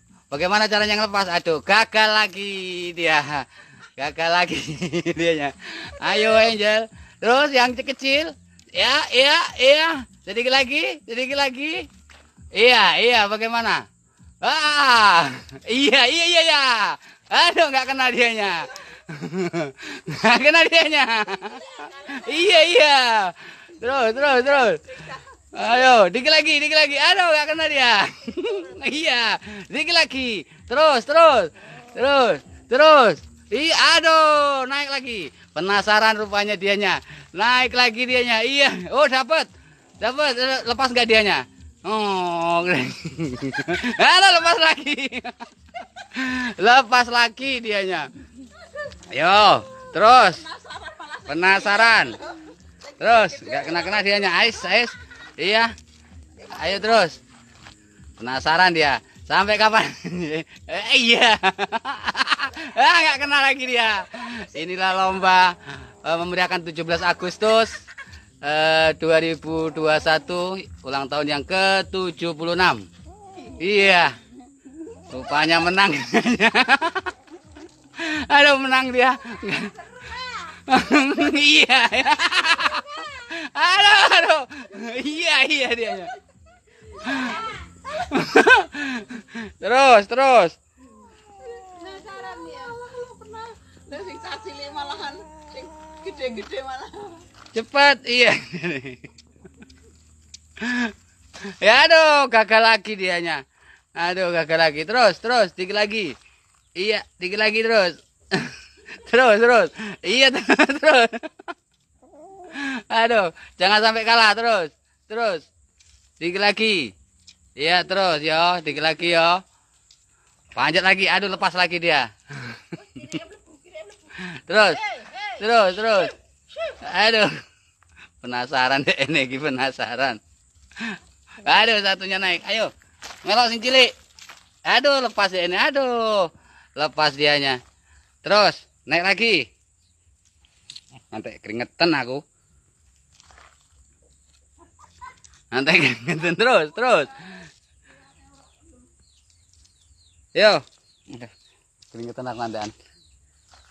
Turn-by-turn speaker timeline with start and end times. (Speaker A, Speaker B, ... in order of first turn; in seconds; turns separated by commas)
Speaker A: 0.3-3.5, Speaker A: 4.0-11.8, Speaker A: 12.5-13.8, Speaker A: 14.4-39.5, Speaker B: 21.8-22.2, Speaker A: 40.0-48.1, Speaker A: 49.1-50.5, Speaker B: 50.4-54.1, Speaker A: 51.3-52.2, Speaker A: 53.0-55.7, Speaker A: 56.4-57.2, Speaker A: 58.2-67.8, Speaker A: 68.4-72.8, Speaker A: 73.6-74.2, Speaker A: 75.1-77.1, Speaker A: 78.0-79.9, Speaker A: 80.5-86.1, Speaker A: 86.9-90.5, Speaker B: 91.5-97.2, Speaker A: 97.5-99.0, Speaker A: 100.6-100.9, Speaker A: 101.5-103.4, Speaker A: 104.0-106.1, Speaker A: 106.8-111.3, Speaker A: 112.5-115.5, Speaker A: 116.2-116.9, Speaker A: 117.6-119.4, Speaker A: 120.5-123.2, Speaker A: 124.1-127.3, Speaker A: 128.2-130.2, Speaker A: 130.8-132.7, Speaker A: 133.2-133.9, Speaker A: 134.7-137.6, Speaker A: 138.2-139.4, Speaker A: 141.1-142.2, Speaker A: 145.5-147.4, Speaker A: 150.3-151.3, Speaker A: 151.9-152.7